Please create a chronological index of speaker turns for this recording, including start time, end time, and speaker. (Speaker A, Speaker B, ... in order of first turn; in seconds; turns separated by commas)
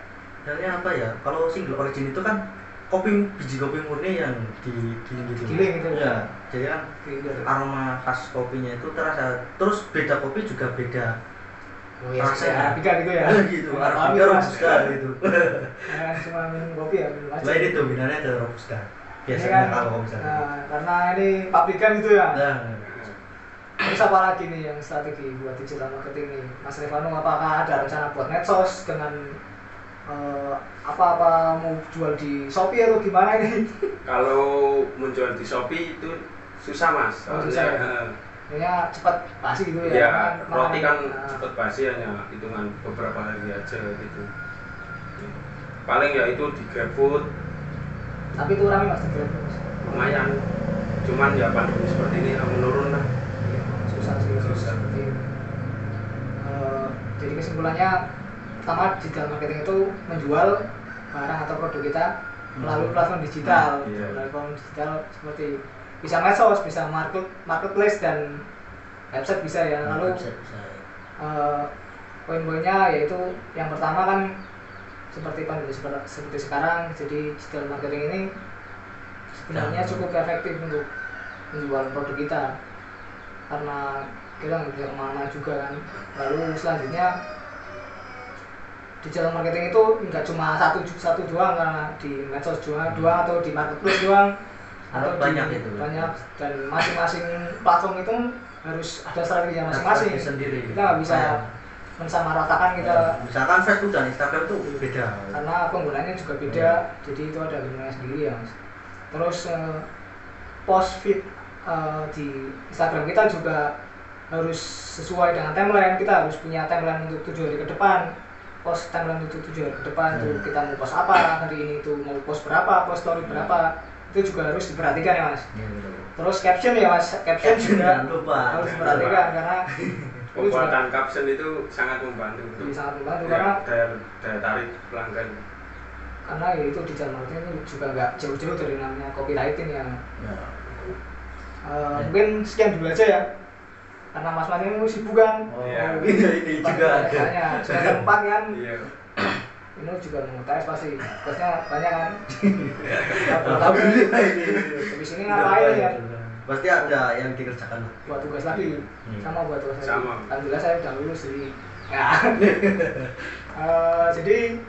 Speaker A: 0.5-6.8, Speaker B: 5.4-6.2, Speaker B: 7.0-7.5, Speaker A: 7.4-11.1, Speaker B: 12.0-14.8, Speaker A: 12.2-16.2, Speaker C: 14.5-14.9, Speaker B: 15.9-17.9, Speaker A: 17.4-20.4, Speaker B: 19.3-22.4, Speaker A: 22.3-22.9, Speaker C: 22.9-23.2, Speaker B: 23.8-29.4, Speaker B: 30.1-33.9, Speaker C: 34.0-38.1, Speaker B: 37.3-37.9, Speaker B: 38.5-41.5, Speaker C: 39.8-44.3, Speaker C: 45.2-47.3, Speaker B: 48.3-50.2, Speaker C: 49.8-50.4, Speaker C: 51.0-53.1, Speaker B: 53.4-55.3, Speaker C: 54.3-54.8, Speaker B: 56.4-58.0, Speaker B: 58.6-68.4, Speaker A: 62.5-63.7, Speaker C: 63.8-64.2, Speaker B: 69.1-70.2, Speaker A: 69.8-70.8, Speaker B: 71.2-71.7, Speaker B: 72.3-74.2, Speaker B: 75.1-78.3, Speaker B: 79.3-80.9, Speaker A: 79.5-80.1, Speaker B: 81.5-82.5, Speaker B: 83.5-87.1, Speaker B: 89.0-94.3, Speaker A: 92.9-93.1, Speaker B: 94.9-101.4, Speaker A: 94.9-96.1, Speaker A: 99.7-101.5, Speaker B: 102.0-103.2, Speaker A: 102.8-105.4, Speaker B: 104.6-108.5, Speaker A: 106.5-106.8, Speaker B: 109.1-109.8, Speaker B: 110.7-113.7, Speaker B: 114.3-118.1, Speaker B: 118.6-125.5, Speaker A: 120.1-120.4, Speaker C: 123.2-123.6, Speaker A: 125.5-126.1, Speaker B: 126.2-129.7, Speaker A: 127.4-129.1, Speaker C: 128.6-129.3, Speaker A: 129.8-130.2, Speaker C: 130.3-135.4, Speaker B: 130.3-130.8, Speaker B: 132.6-133.6, Speaker B: 136.2-140.0, Speaker A: 140.2-140.9, Speaker B: 141.6-143.2, Speaker B: 144.1-148.6, Speaker A: 145.5-148.1, Speaker C: 145.6-146.1, Speaker C: 148.5-148.9, Speaker B: 149.8-152.2, Speaker A: 152.3-158.2, Speaker C: 152.9-153.2, Speaker B: 153.2-156.0, Speaker B: 156.7-157.1, Speaker B: 158.1-162.4, Speaker C: 159.8-160.3, Speaker A: 162.4-163.3, Speaker B: 163.5-164.4